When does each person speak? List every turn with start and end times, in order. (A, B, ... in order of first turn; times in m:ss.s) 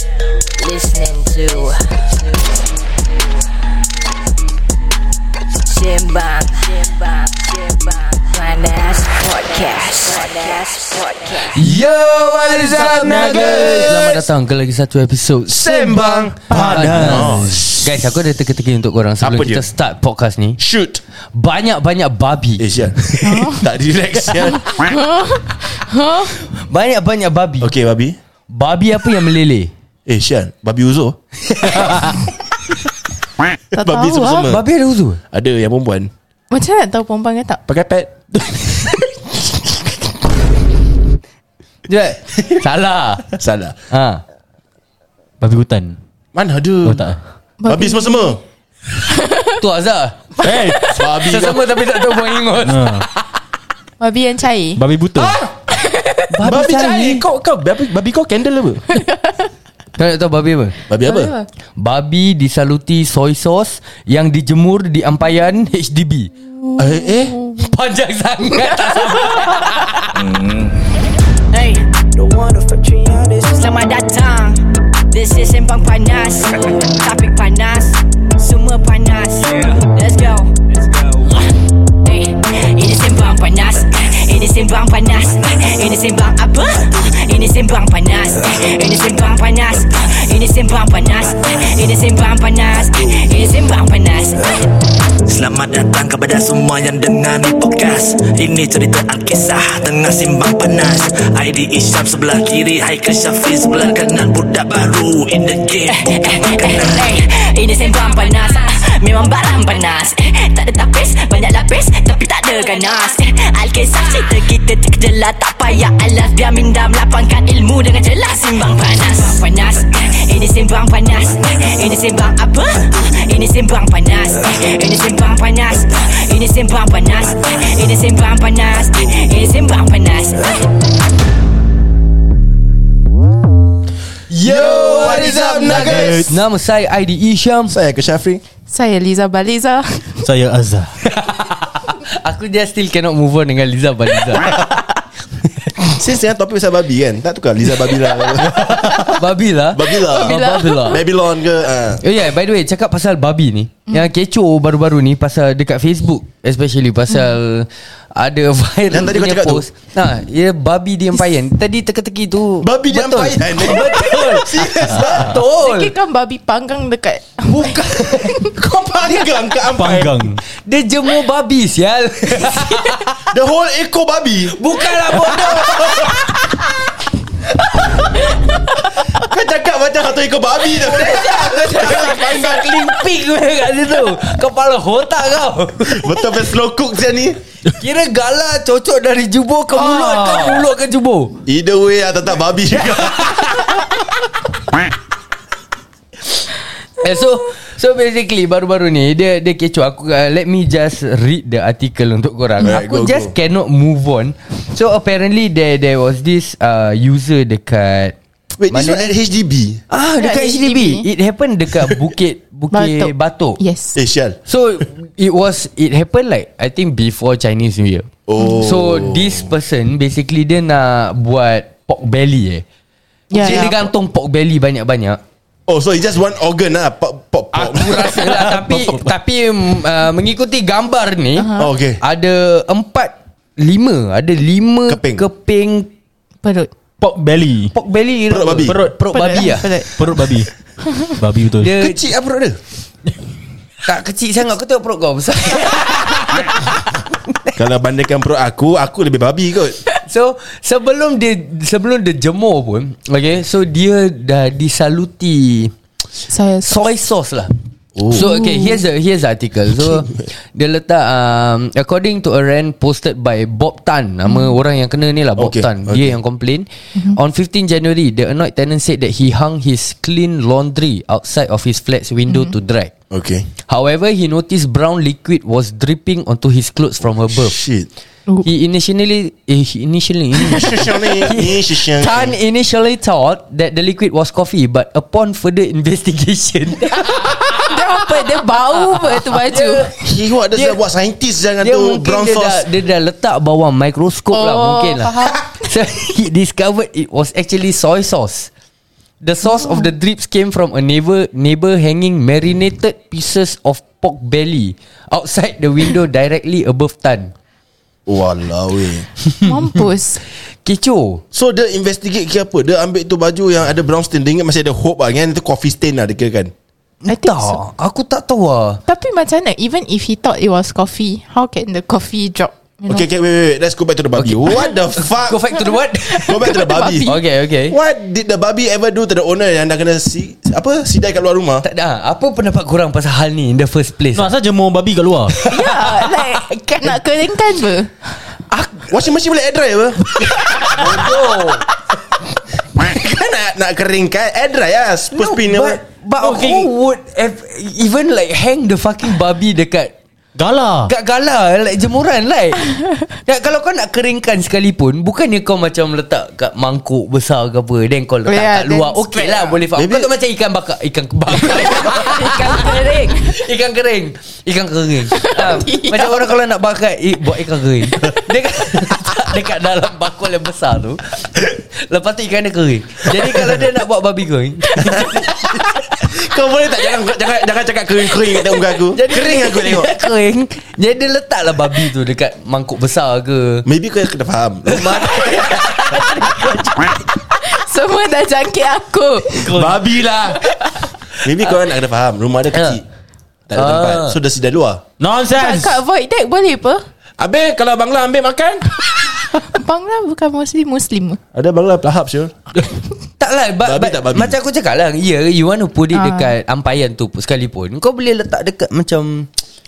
0:00.6-0:02.5 A
0:05.6-0:11.5 A
0:11.4-0:20.6 B
0:11.6-0:14.2 C
0:13.0-0:13.9 D
0:15.5-0:18.1 C
0:16.5-0:17.4 D
0:16.5-0:16.8 E
0:19.2-0:19.7 C
0:20.6-0:21.0 C
0:21.3-0:22.6 B
0:22.6-0:24.7 C
0:23.2-0:23.6 E
0:24.7-0:26.4 E
0:26.5-0:27.7 B
0:27.6-0:28.2 C
0:28.5-0:29.7 B
0:30.1-0:31.2 C
0:31.5-0:32.2 B
0:33.7-0:34.5 E
0:33.7-0:34.6 C
0:34.5-0:35.2 B
0:35.3-0:36.1 C
0:36.5-0:37.6 E
0:37.7-0:38.2 C
0:41.9-0:43.3 B
0:43.3-0:43.8 C
0:43.9-0:44.2 B
0:45.4-0:46.0 D
0:46.3-0:47.0 C
0:46.8-0:47.2 D
0:47.6-0:48.4 E
0:47.7-0:48.4 C
0:49.1-0:49.6 E
0:49.6-0:50.3 B
0:50.4-0:50.9 D
0:50.4-0:50.9 E
0:50.9-0:53.2 B
0:51.0-0:51.7 C
0:52.6-0:53.0 D
0:54.0-0:54.8 E
0:54.8-0:55.4 D
0:55.2-0:55.5 C
0:55.9-0:56.2 E
0:56.3-0:57.2 B
0:56.4-0:58.8 C
0:58.9-0:59.4 E
1:00.0-1:00.8 B
1:00.9-1:01.3 C
1:01.0-1:01.4 E
1:01.8-1:06.3 B
1:06.8-1:07.4 C
1:07.6-1:10.2 B
1:10.3-1:10.7 F
1:11.5-1:20.5 A
1:22.0-1:34.6 A
1:35.2-1:46.1 F
1:45.9-2:10.6 A
1:46.6-1:47.1 F
2:14.3-2:17.8 B
2:14.4-2:16.3 C
2:15.6-2:16.3 D
2:17.7-2:18.4 C
2:18.7-2:20.2 E
2:20.2-2:21.0 D
2:21.1-2:24.8 B
2:25.9-2:29.1 C
2:29.1-2:31.0 B
2:29.7-2:32.0 C
2:29.9-2:31.0 E
2:32.0-2:45.9 B
2:38.9-2:39.6 C
2:42.6-2:45.4 C
2:45.5-2:48.5 E
2:47.5-2:48.3 B
2:48.5-2:50.2 C
2:49.7-2:50.4 D
2:50.6-2:53.1 B
2:53.3-2:54.5 C
2:54.6-2:56.1 B
2:55.1-2:56.4 C
2:59.0-3:02.7 C
3:00.8-3:06.2 B
3:01.1-3:02.6 E
3:05.8-3:07.4 C
3:07.8-3:11.4 B
3:11.4-3:13.8 C
3:17.0-3:28.1 B
3:22.6-3:23.3 C
3:28.6-3:29.8 C
3:28.7-3:29.1 B
3:29.9-3:33.6 B
3:30.2-3:31.1 E
3:32.7-3:34.0 E
3:33.9-3:34.4 C
3:34.5-3:42.6 B
3:38.3-3:39.5 C
3:43.3-3:43.7 E
3:43.3-3:45.2 B
3:43.4-3:43.9 C
3:45.7-3:48.3 C
3:47.5-3:51.5 B
3:48.5-3:49.0 D
3:51.4-3:51.7 E
3:51.6-3:52.0 C
3:52.0-3:55.9 B
3:54.9-3:55.2 C
3:56.4-3:56.7 E
3:57.0-3:57.7 D
3:57.7-3:59.7 B
3:58.3-3:58.8 C
3:59.1-3:59.9 E
3:59.9-4:00.5 D
4:01.2-4:01.8 D
4:01.6-4:02.0 B
4:01.8-4:02.6 C
4:03.8-4:07.4 B
4:07.6-4:09.8 C
4:10.0-4:15.7 B
4:16.3-4:16.8 E
4:16.6-4:17.5 B
4:18.0-4:18.4 C
4:18.0-4:32.9 B
4:18.1-4:18.7 E
4:19.8-4:20.1 C
4:24.3-4:24.5 E
4:25.4-4:26.2 C
4:32.3-4:32.5 E
4:33.1-4:33.5 C
4:33.7-4:37.6 B
4:37.3-4:37.9 C
4:38.4-4:47.7 B
4:40.4-4:42.3 C
4:47.4-4:49.9 E
4:49.0-4:50.8 B
4:50.0-4:52.7 C
4:51.6-4:58.5 B
4:54.3-4:55.7 E
4:59.2-5:07.3 B
5:08.1-5:09.1 C
5:09.4-5:10.2 E
5:10.6-5:11.2 B
5:11.3-5:16.5 C
5:17.0-5:18.8 B
5:17.1-5:17.6 E
5:18.9-5:23.1 E
5:22.9-5:25.4 C
5:24.2-5:26.4 B
5:25.6-5:27.2 E
5:26.2-5:27.1 C
5:27.0-5:27.8 B
5:27.7-5:31.6 C
5:31.6-5:34.3 B
5:34.1-5:35.4 D
5:35.4-5:36.4 B
5:35.4-5:38.1 E
5:38.5-5:38.9 B
5:38.9-5:41.1 C
5:40.5-5:40.8 E
5:40.5-5:41.6 B
5:42.7-5:45.8 C
5:45.1-5:49.9 B
5:46.2-5:46.7 D
5:50.4-5:50.9 D
5:50.9-6:16.1 B
5:58.3-5:59.5 E
5:59.7-6:00.1 C
6:01.6-6:03.4 E
6:05.1-6:06.3 E
6:13.2-6:13.5 C
6:14.9-6:19.9 C
6:18.5-6:23.6 B
6:23.6-6:26.0 C
6:24.7-6:26.6 B
6:26.0-6:29.5 E
6:29.4-6:29.8 D
6:29.4-6:30.4 C
6:30.5-6:30.9 E
6:31.2-6:32.8 C
6:32.5-6:32.8 B
6:33.5-6:34.8 C
6:33.5-6:34.2 B
6:35.0-6:35.8 D
6:35.4-6:36.8 E
6:37.2-6:38.6 C
6:39.3-6:41.2 E
6:41.3-6:42.4 C
6:43.2-6:49.3 B
6:43.6-6:44.4 C
6:45.9-6:46.3 E